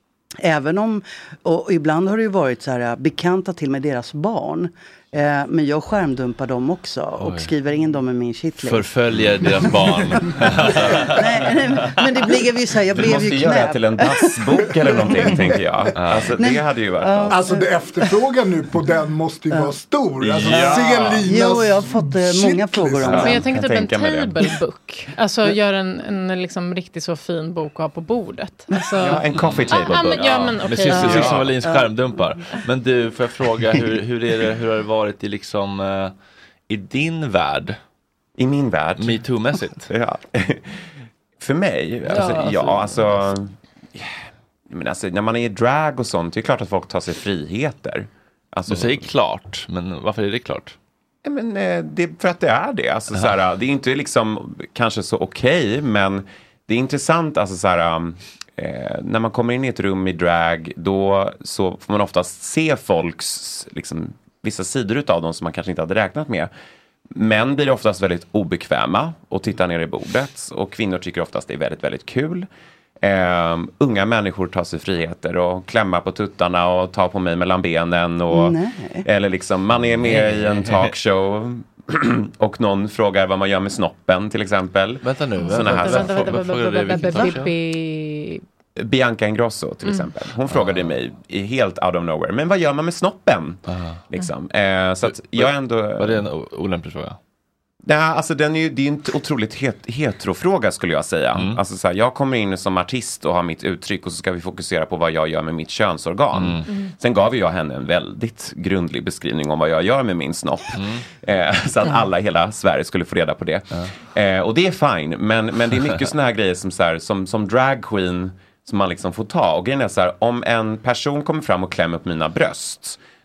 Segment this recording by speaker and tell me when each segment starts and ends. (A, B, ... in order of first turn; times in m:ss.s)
0:00.4-0:08.9 A
0:07.2-0:07.5 B
0:08.6-0:11.2 B
0:10.7-0:14.4 A
0:12.9-0:17.4 C
0:15.0-0:15.3 A
0:16.0-0:16.4 B
0:16.4-0:17.7 A
0:17.3-0:23.3 D
0:20.2-0:20.9 B
0:20.3-0:21.3 C
0:21.2-0:23.4 A
0:23.0-0:24.6 C
0:23.2-0:31.3 E
0:28.7-0:29.2 A
0:29.0-0:31.5 C
0:29.3-0:36.1 B
0:31.3-0:32.4 A
0:36.7-0:37.8 B
0:38.4-0:39.2 C
0:39.0-0:39.9 B
0:39.9-0:40.8 C
0:41.4-0:44.1 C
0:42.1-0:43.2 B
0:44.7-0:49.0 C
0:48.7-0:50.8 B
0:51.2-1:06.5 C
1:07.1-1:12.5 C
1:13.0-1:26.4 C
1:18.3-1:19.1 A
1:20.0-1:20.9 B
1:25.0-1:27.5 B
1:25.4-1:28.4 E
1:28.8-1:36.2 C
1:30.5-1:30.9 B
1:33.7-1:34.0 B
1:35.1-1:37.2 B
1:37.8-2:03.0 C
1:41.3-1:41.6 B
1:46.3-1:46.6 B
1:50.8-1:51.0 B